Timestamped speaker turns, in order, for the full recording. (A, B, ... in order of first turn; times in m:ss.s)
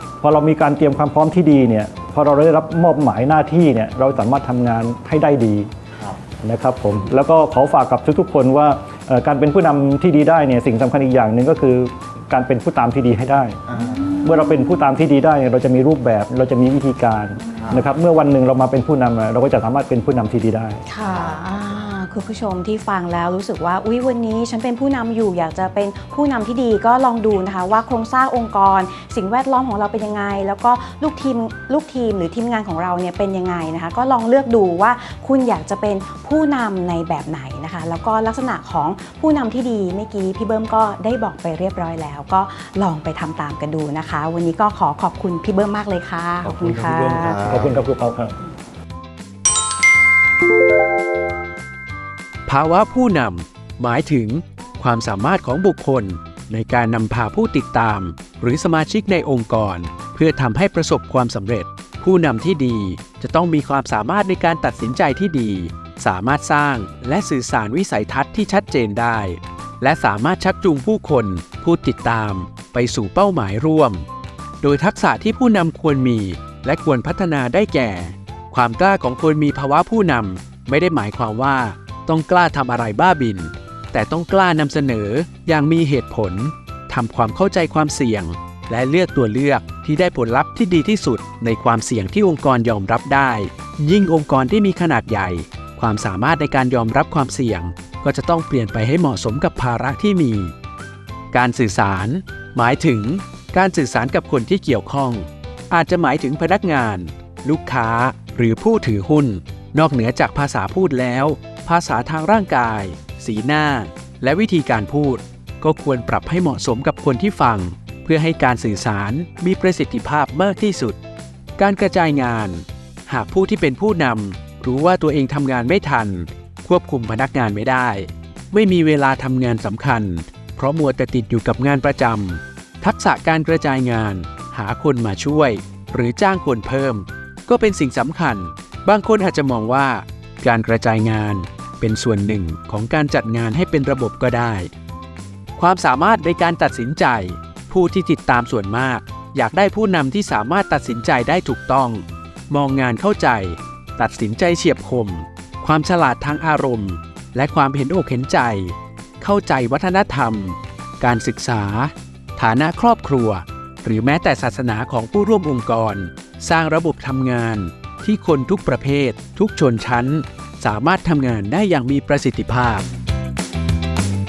0:00.2-0:05.7 A
0:05.9-0:06.2 B
0:06.4-0:13.6 A
0:13.7-0:14.2 B
0:13.7-0:14.9 C
0:14.2-0:20.8 A
0:17.4-0:17.8 C
0:17.6-0:17.9 B
0:20.9-0:47.4 C
0:21.0-0:21.6 B
0:46.4-0:47.8 B
0:47.4-0:48.3 A
0:52.4-1:14.0 D
1:14.6-1:40.5 D
1:41.3-2:01.0 D
2:01.6-2:24.7 D
2:25.6-2:52.8 D